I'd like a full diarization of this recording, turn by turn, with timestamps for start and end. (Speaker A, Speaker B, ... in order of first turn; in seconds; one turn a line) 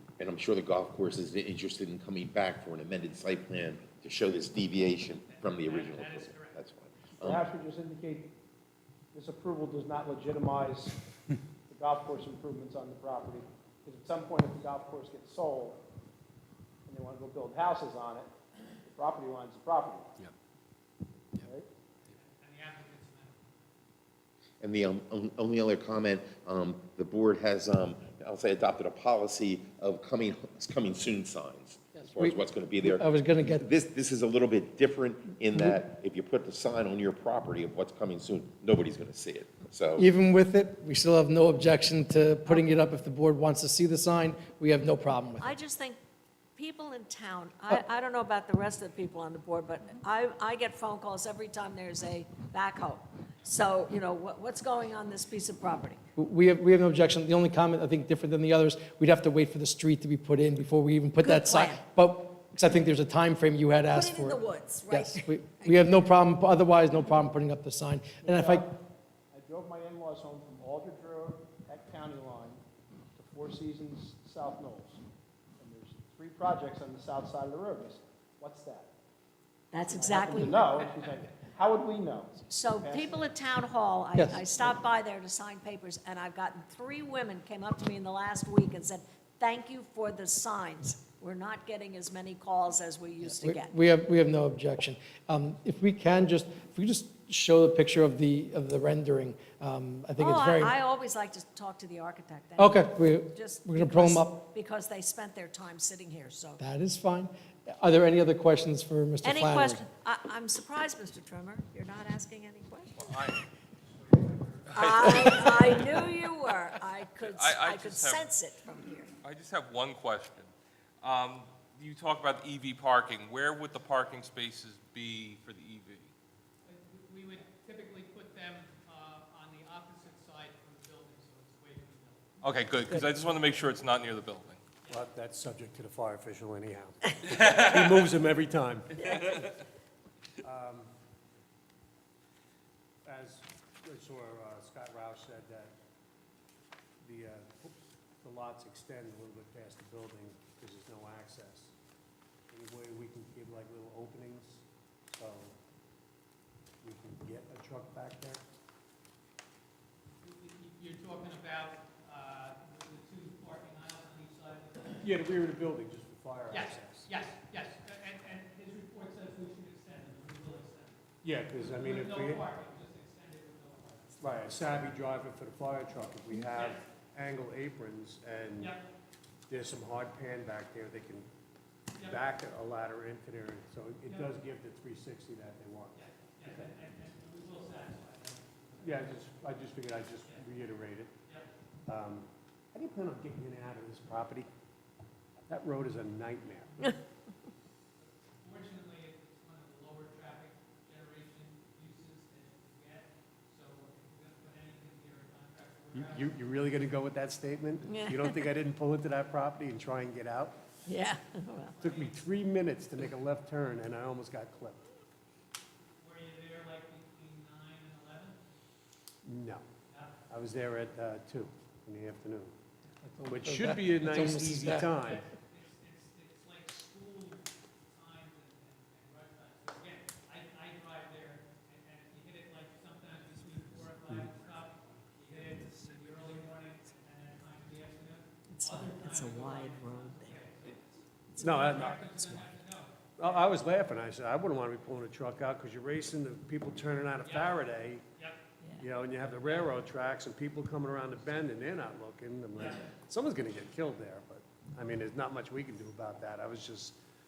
Speaker A: 0.2-7.4
Speaker B: 5.3-6.6
Speaker C: 7.2-8.3
Speaker C: 9.1-11.0
Speaker C: 11.7-15.8
Speaker C: 16.9-18.3
Speaker C: 18.9-20.1
Speaker B: 22.1-23.7
Speaker A: 24.6-40.0
Speaker D: 32.0-33.6
Speaker D: 35.5-35.8
Speaker D: 40.0-45.5
Speaker E: 45.4-46.0
Speaker E: 46.6-56.0
Speaker D: 56.2-68.7
Speaker E: 61.2-61.8
Speaker E: 63.9-65.8
Speaker C: 68.2-68.7
Speaker C: 69.3-72.6
Speaker C: 73.2-75.0
Speaker C: 75.6-78.9
Speaker E: 79.7-80.9
Speaker C: 79.9-83.3
Speaker E: 82.5-93.8
Speaker D: 84.2-84.4
Speaker D: 93.2-100.7
Speaker E: 100.2-106.6
Speaker D: 102.6-104.4
Speaker D: 106.6-109.8
Speaker E: 109.2-113.1
Speaker F: 113.0-113.5
Speaker B: 114.0-114.6
Speaker E: 114.7-119.1
Speaker F: 114.7-116.1
Speaker F: 117.3-118.3
Speaker F: 119.2-126.1
Speaker B: 126.7-132.4
Speaker F: 132.4-134.6
Speaker G: 134.9-139.4
Speaker F: 137.4-137.9
Speaker G: 140.4-140.9
Speaker G: 143.1-145.8
Speaker G: 147.0-151.7
Speaker G: 152.5-155.6
Speaker G: 156.8-158.4
Speaker B: 160.2-165.1
Speaker G: 165.0-167.1
Speaker B: 166.5-171.0
Speaker G: 171.2-172.5
Speaker B: 171.7-174.2
Speaker G: 174.2-178.8
Speaker B: 176.6-176.8
Speaker G: 179.5-181.3
Speaker G: 182.0-186.7
Speaker B: 184.1-184.3
Speaker B: 185.9-189.4
Speaker G: 188.8-191.1
Speaker B: 191.3-191.5
Speaker G: 191.9-194.5
Speaker G: 195.5-197.0
Speaker B: 198.0-206.4
Speaker G: 205.9-210.6
Speaker E: 207.9-208.3
Speaker E: 210.9-211.8
Speaker B: 211.7-212.2
Speaker G: 211.8-214.8
Speaker B: 216.0-218.4
Speaker G: 219.2-219.7
Speaker B: 219.9-220.2
Speaker G: 220.3-222.6
Speaker D: 223.0-224.9
Speaker G: 223.3-225.3
Speaker B: 225.0-243.5
Speaker E: 238.5-240.4
Speaker E: 241.3-242.4
Speaker G: 241.4-242.1
Speaker G: 243.2-248.1
Speaker B: 247.2-248.4
Speaker G: 248.8-257.0
Speaker B: 249.3-249.8